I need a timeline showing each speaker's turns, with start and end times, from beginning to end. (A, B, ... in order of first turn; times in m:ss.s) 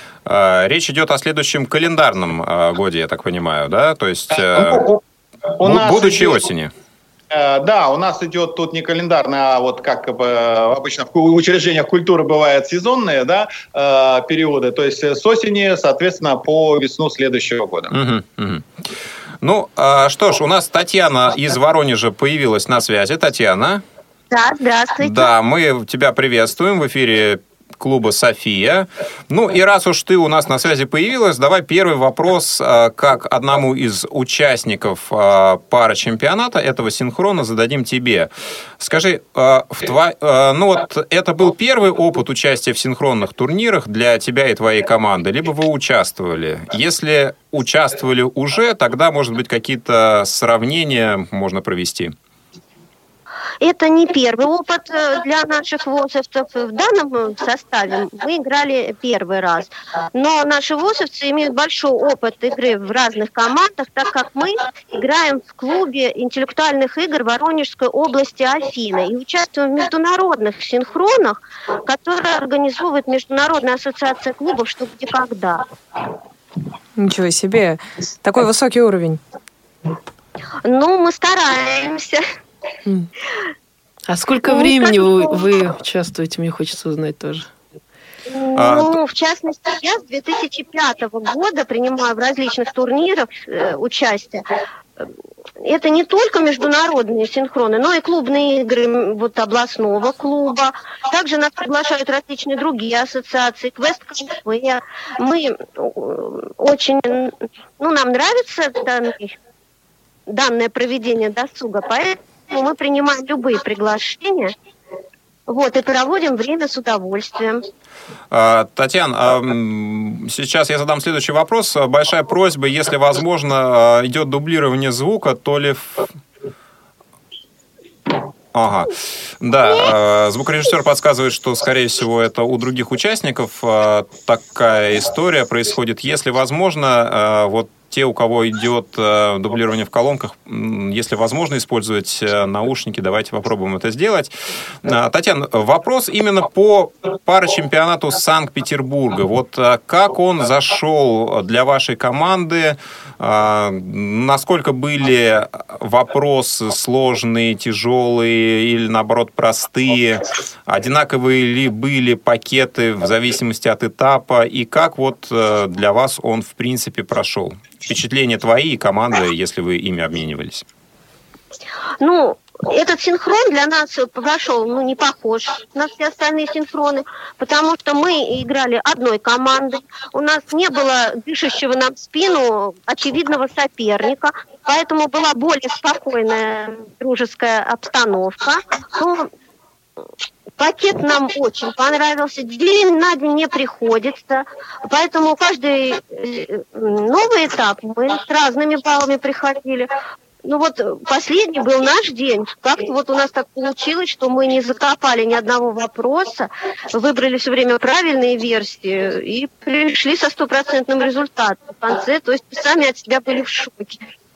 0:00.3-0:04.9 A
0:04.5-0:05.0 B
0:05.6-0:06.4 B
0:05.6-0:06.7 A
0:07.3-0:18.0 B
0:17.9-0:18.7 A
0:19.4-0:23.8 A
0:24.3-0:25.3 C
0:25.0-0:52.1 A
0:53.6-1:15.6 C
1:17.0-1:19.2 D
1:20.6-1:22.2 C
1:24.1-1:27.5 E
1:24.5-1:25.3 C
1:28.3-1:34.4 C
1:28.6-1:28.9 A
1:35.6-1:49.4 C
1:50.3-1:54.5 C
1:55.5-1:57.6 C
1:58.3-2:06.1 A
2:08.5-2:24.3 A
2:24.8-2:50.6 A
2:52.0-3:09.3 C
3:10.6-3:19.9 C
3:20.4-3:34.0 C